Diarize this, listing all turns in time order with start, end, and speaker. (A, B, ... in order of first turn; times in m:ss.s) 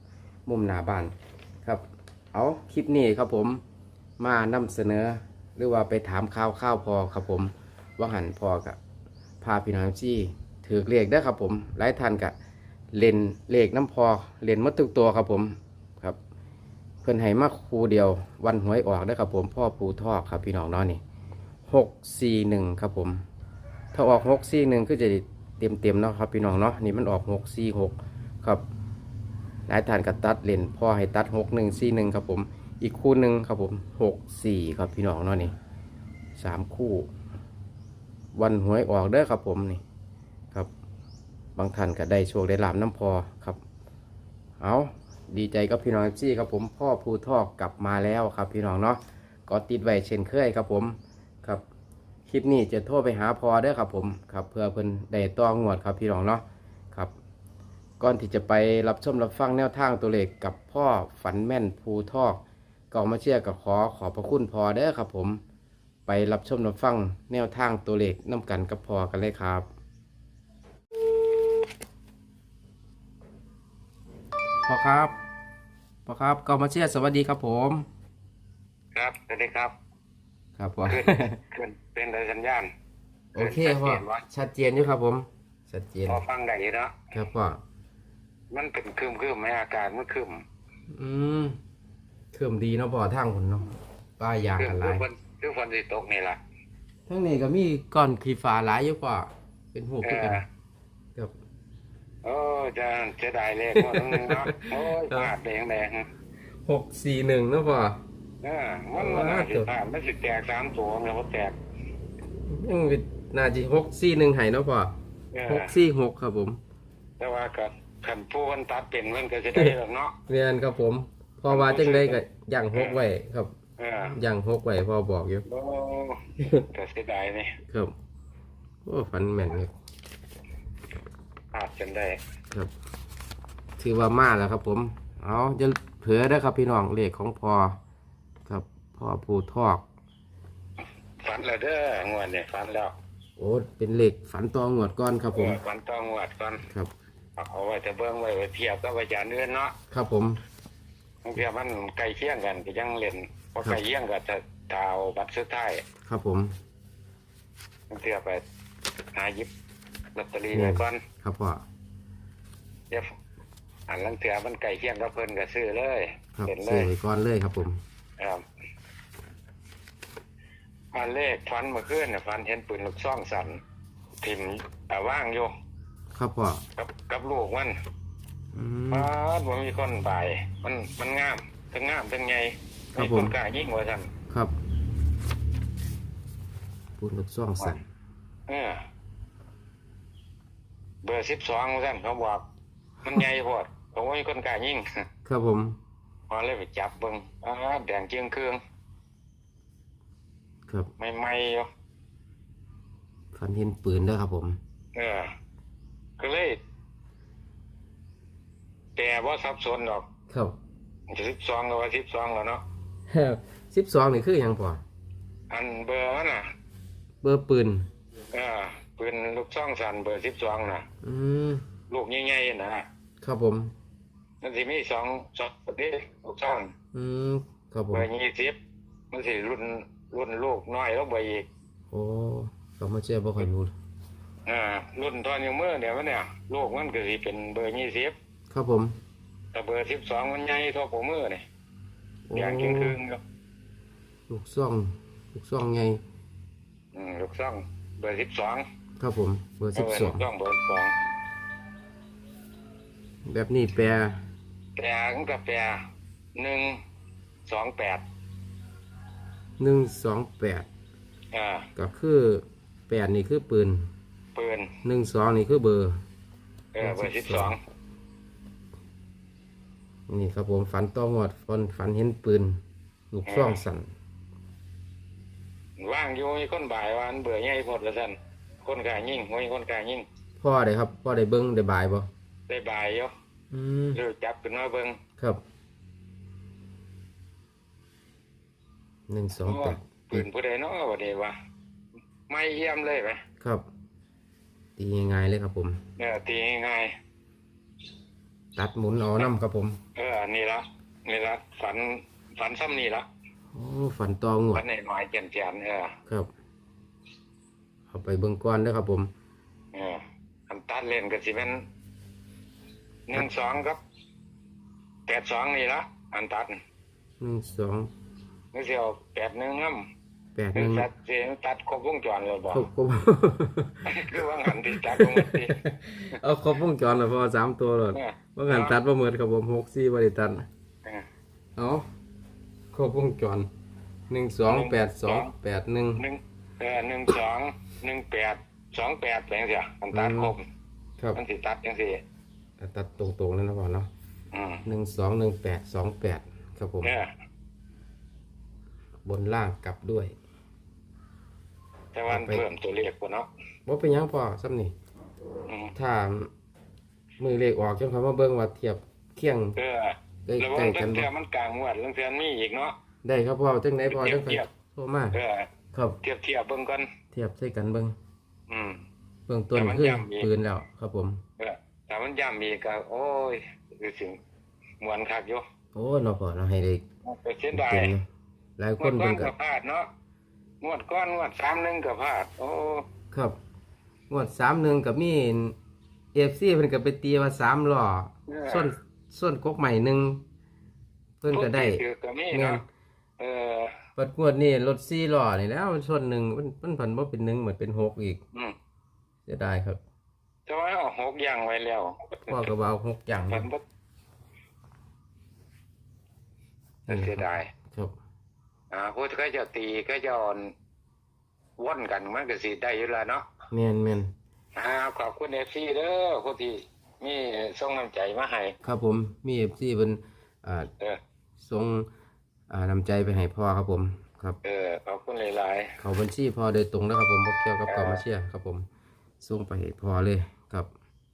0:00.4-0:01.1 A
0:01.6-0:03.6 A
0:04.2-0:08.8 A
0:09.4-0:12.3 A
0:12.9-0:16.2 A
0:17.0-0:21.0 A
0:21.7-0:23.2 A
0:23.9-0:28.6 A
0:29.7-0:35.5 A
0:36.4-0:37.1 A
0:38.3-0:39.8 A
0:41.6-0:43.6 A
0:44.6-0:51.6 A
0:52.2-0:57.1 A
0:58.0-1:02.4 A
1:02.9-1:05.4 A
1:06.1-1:09.6 A
1:14.6-1:15.1 A
1:16.0-1:17.9 A
1:18.9-1:19.7 B
1:20.6-1:21.4 A
1:20.8-1:22.7 B
1:23.3-1:24.2 B
1:23.3-1:26.2 A
1:26.1-1:27.0 B
1:27.1-1:27.6 A
1:28.5-1:30.4 B
1:30.9-1:31.6 A
1:32.3-1:35.0 A
1:34.6-1:36.4 B
1:37.1-1:40.4 A
1:40.0-1:40.4 B
1:42.2-1:46.1 B
1:43.8-1:45.3 A
1:46.6-1:48.0 A
1:48.4-1:51.6 B
1:49.0-1:49.7 A
1:52.5-1:54.9 A
1:55.3-1:55.7 B
1:55.5-1:56.6 A
1:57.2-2:00.2 B
2:00.3-2:03.5 A
2:01.5-2:02.2 B
2:03.8-2:04.2 B
2:04.1-2:05.4 A
2:05.5-2:07.6 B
2:07.6-2:07.9 A
2:08.8-2:09.7 A
2:11.5-2:12.2 B
2:13.8-2:17.8 A
2:18.4-2:19.8 A
2:21.2-2:22.9 B
2:23.4-2:25.6 A
2:25.3-2:26.6 B
2:26.6-2:26.9 A
2:27.4-2:29.7 B
2:29.9-2:30.4 A
2:31.2-2:35.8 B
2:36.0-2:36.5 A
2:37.9-2:38.4 B
2:39.1-2:39.5 B
2:40.1-2:41.0 B
2:40.5-2:41.6 A
2:43.9-2:46.9 B
2:46.4-2:47.8 A
2:48.2-2:48.4 B
2:50.9-2:53.6 B
2:54.2-2:55.5 B
2:56.1-2:56.6 A
2:56.8-2:57.8 B
2:58.5-2:59.1 A
2:58.9-3:04.1 B
3:03.0-3:03.3 A
3:07.0-3:07.8 A
3:08.5-3:08.8 B
3:11.0-3:12.4 B
3:13.0-3:15.0 B
3:15.2-3:15.8 A
3:16.3-3:18.6 B
3:21.0-3:21.7 B
3:23.3-3:24.6 A
3:24.9-3:25.3 B
3:26.2-3:26.6 B
3:29.0-3:30.1 B
3:30.3-3:30.6 A
3:31.1-3:32.6 B
3:33.1-3:34.8 A
3:35.5-3:36.5 B
3:37.2-3:37.9 A
3:38.3-3:40.8 B
3:41.0-3:41.6 A
3:41.9-3:42.9 B
3:43.2-3:43.7 A
3:44.4-3:46.7 B
3:46.9-3:48.0 A
3:47.9-3:48.6 B
3:49.1-3:51.5 B
3:51.9-3:53.7 A
3:54.4-3:58.1 B
3:58.5-3:58.9 A
3:59.5-4:01.4 B
4:02.3-4:03.0 A
4:02.3-4:03.2 B
4:04.3-4:06.0 A
4:06.9-4:08.6 B
4:09.0-4:10.2 A
4:09.7-4:11.0 B
4:13.2-4:14.2 A
4:14.8-4:15.8 B
4:16.4-4:16.8 B
4:17.5-4:18.0 B
4:19.6-4:20.7 A
4:21.3-4:21.7 B
4:21.8-4:23.9 A
4:24.3-4:24.7 B
4:24.8-4:26.0 A
4:26.7-4:27.6 B
4:26.8-4:27.5 A
4:30.1-4:32.6 A
4:33.1-4:33.9 A
4:33.2-4:33.6 B
4:35.8-4:40.1 B
4:40.4-4:42.1 A
4:42.5-4:43.1 B
4:43.5-4:44.0 A
4:43.9-4:45.0 B
4:49.1-4:50.2 A
4:49.4-4:51.4 B
4:52.3-4:53.2 B
4:53.4-4:53.6 A
4:54.8-4:55.8 A
4:56.0-4:56.9 B
4:58.6-4:59.8 A
4:59.9-5:03.1 B
5:03.5-5:04.6 A
5:04.5-5:06.0 B
5:07.9-5:09.1 A
5:09.7-5:11.6 B
5:13.1-5:13.8 B
5:15.1-5:16.6 B
5:17.2-5:17.9 A
5:18.5-5:19.9 B
5:20.4-5:20.9 A
5:20.5-5:22.6 B
5:22.5-5:30.5 A
5:23.8-5:25.6 B
5:27.9-5:28.8 B
5:31.6-5:31.8 A
5:32.7-5:33.5 A
5:34.1-5:36.0 A
5:34.5-5:35.3 B
5:36.0-5:40.4 B
5:39.9-5:40.3 A
5:41.1-5:42.0 B
5:42.6-5:43.9 A
5:44.3-5:44.6 B
5:44.6-5:46.9 A
5:46.8-5:47.1 B
5:49.0-5:50.1 A
5:51.9-5:53.3 B
5:52.1-5:52.4 A
5:53.6-5:54.7 A
5:55.5-5:55.7 B
5:55.7-5:56.3 A
5:57.2-5:59.6 A
5:59.6-6:02.8 B
6:00.2-6:01.1 A
6:03.0-6:05.2 A
6:03.9-6:04.5 B
6:05.1-6:05.5 B
6:05.7-6:06.0 A
6:06.0-6:06.9 B
6:07.1-6:07.9 A
6:08.5-6:08.8 B
6:09.3-6:11.2 A
6:09.5-6:10.3 B
6:11.4-6:14.2 B
6:14.8-6:15.4 B
6:15.7-6:16.8 A
6:17.0-6:17.9 B
6:17.5-6:18.0 A
6:18.6-6:19.3 A
6:18.8-6:19.9 B
6:20.6-6:22.9 B
6:24.1-6:25.5 A
6:26.1-6:30.2 A
6:28.3-6:28.7 B
6:31.2-6:32.6 A
6:31.3-6:32.6 B
6:33.2-6:33.8 B
6:34.0-6:38.2 A
6:39.2-6:39.8 A
6:40.5-6:42.4 B
6:42.3-6:43.5 A
6:43.3-6:43.6 B
6:46.9-6:47.9 A
6:46.9-6:47.5 B
6:48.7-6:50.5 B
6:51.6-6:53.3 B
6:53.5-6:54.1 A
6:54.5-6:58.6 B
6:58.6-7:00.7 A
7:01.4-7:01.9 A
7:02.5-7:04.4 A
7:04.4-7:05.8 B
7:05.8-7:08.6 A
7:07.7-7:08.0 B
7:09.2-7:10.7 A